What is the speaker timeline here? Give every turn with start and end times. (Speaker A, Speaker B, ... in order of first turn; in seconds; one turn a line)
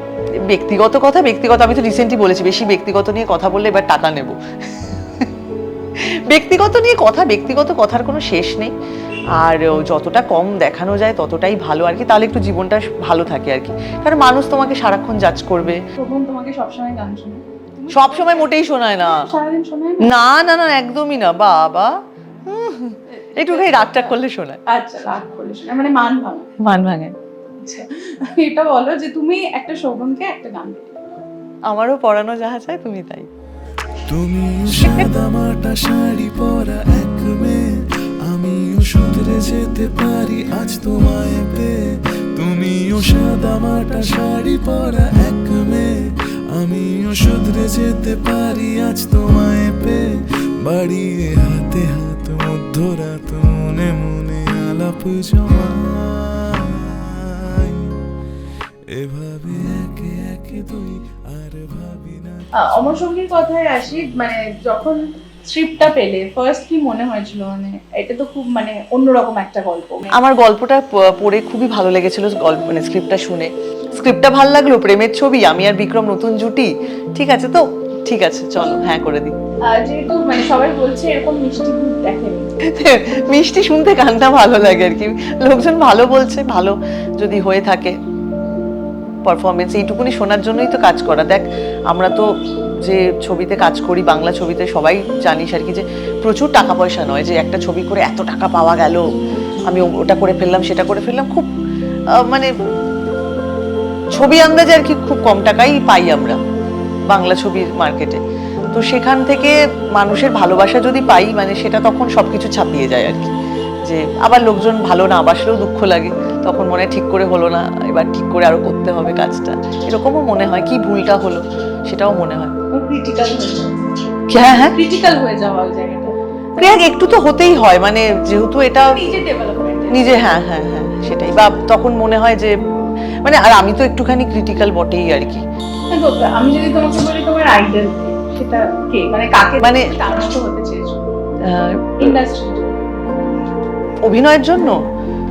Speaker A: 0.4-5.3
Speaker A: 6.0-8.7
Speaker A: 9.3-15.8
Speaker B: 16.0-20.1
Speaker A: 17.9-19.3
Speaker A: 20.0-24.6
Speaker B: 23.1-26.5
Speaker A: 26.6-27.1
Speaker B: 27.6-31.0
Speaker A: 31.7-33.3
Speaker C: 34.1-58.0
Speaker C: 58.9-63.3
Speaker B: 62.5-70.2
Speaker A: 70.1-79.3
Speaker B: 79.7-82.5
Speaker A: 82.6-88.0
Speaker A: 89.2-101.5
Speaker A: 102.1-102.5
Speaker A: 104.1-106.4
Speaker A: 107.1-108.2
Speaker A: 108.7-113.3
Speaker A: 113.8-122.5
Speaker B: 122.7-123.9
Speaker A: 124.3-124.8
Speaker B: 124.7-126.2
Speaker A: 126.6-129.1
Speaker B: 128.8-130.2
Speaker A: 129.9-135.4
Speaker B: 135.9-141.0
Speaker A: 139.6-140.0
Speaker A: 141.4-142.2
Speaker B: 142.0-143.2
Speaker A: 144.0-144.9